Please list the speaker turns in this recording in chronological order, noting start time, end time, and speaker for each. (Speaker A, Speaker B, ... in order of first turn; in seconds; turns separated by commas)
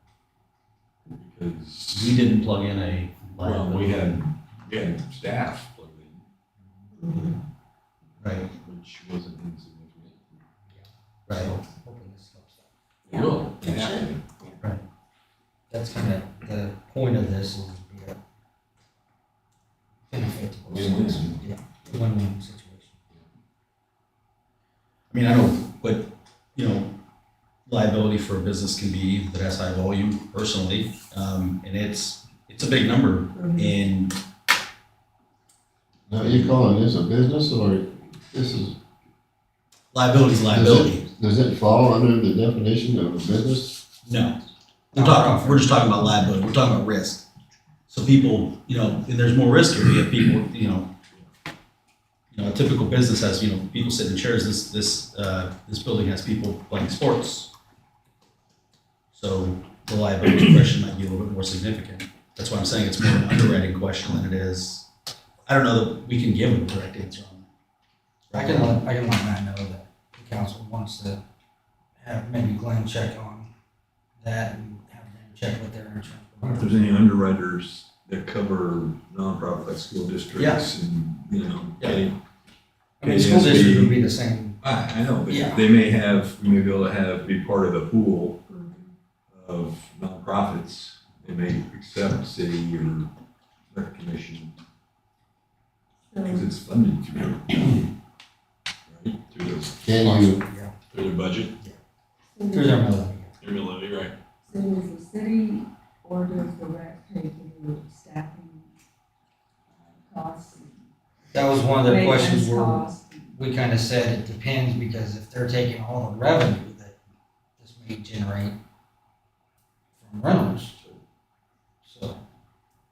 Speaker A: 1.1-2.1, Speaker B: 1.9-4.1, Speaker A: 3.4-6.2, Speaker C: 7.0-7.4, Speaker B: 8.2-8.5, Speaker A: 8.5-10.2, Speaker D: 10.8-12.7, Speaker B: 11.3-11.5, Speaker A: 13.1-14.2, Speaker C: 13.1-14.6, Speaker D: 15.7-18.2, Speaker D: 20.1-23.0, Speaker A: 20.7-21.4, Speaker B: 25.1-26.9, Speaker B: 27.7-34.2, Speaker C: 33.4-33.7, Speaker E: 36.1-38.8, Speaker B: 39.9-41.0, Speaker E: 40.5-43.8, Speaker B: 44.0-44.4, Speaker D: 44.9-45.7, Speaker B: 44.9-47.2, Speaker B: 47.9-50.9, Speaker B: 52.3-57.5, Speaker B: 59.1-64.9, Speaker B: 65.5-67.5, Speaker B: 68.3-68.8, Speaker D: 68.3-71.2, Speaker D: 72.0-73.5, Speaker D: 74.2-77.0, Speaker A: 76.5-82.2, Speaker B: 80.4-80.7, Speaker B: 81.8-82.1, Speaker D: 83.0-84.6, Speaker A: 83.0-84.0, Speaker A: 84.6-88.4, Speaker D: 85.3-85.6, Speaker C: 88.5-88.9, Speaker A: 89.3-93.1, Speaker A: 93.7-94.5, Speaker C: 96.1-96.5, Speaker A: 96.2-97.9, Speaker A: 98.9-99.8, Speaker E: 99.8-100.4, Speaker D: 100.0-100.8, Speaker A: 100.9-101.5, Speaker C: 102.3-103.0, Speaker D: 102.5-103.3, Speaker A: 103.4-104.1, Speaker C: 104.4-108.7, Speaker C: 109.7-110.8, Speaker D: 111.3-117.0, Speaker C: 111.8-113.3, Speaker D: 117.6-118.6, Speaker D: 120.0-120.8, Speaker D: 121.8-122.2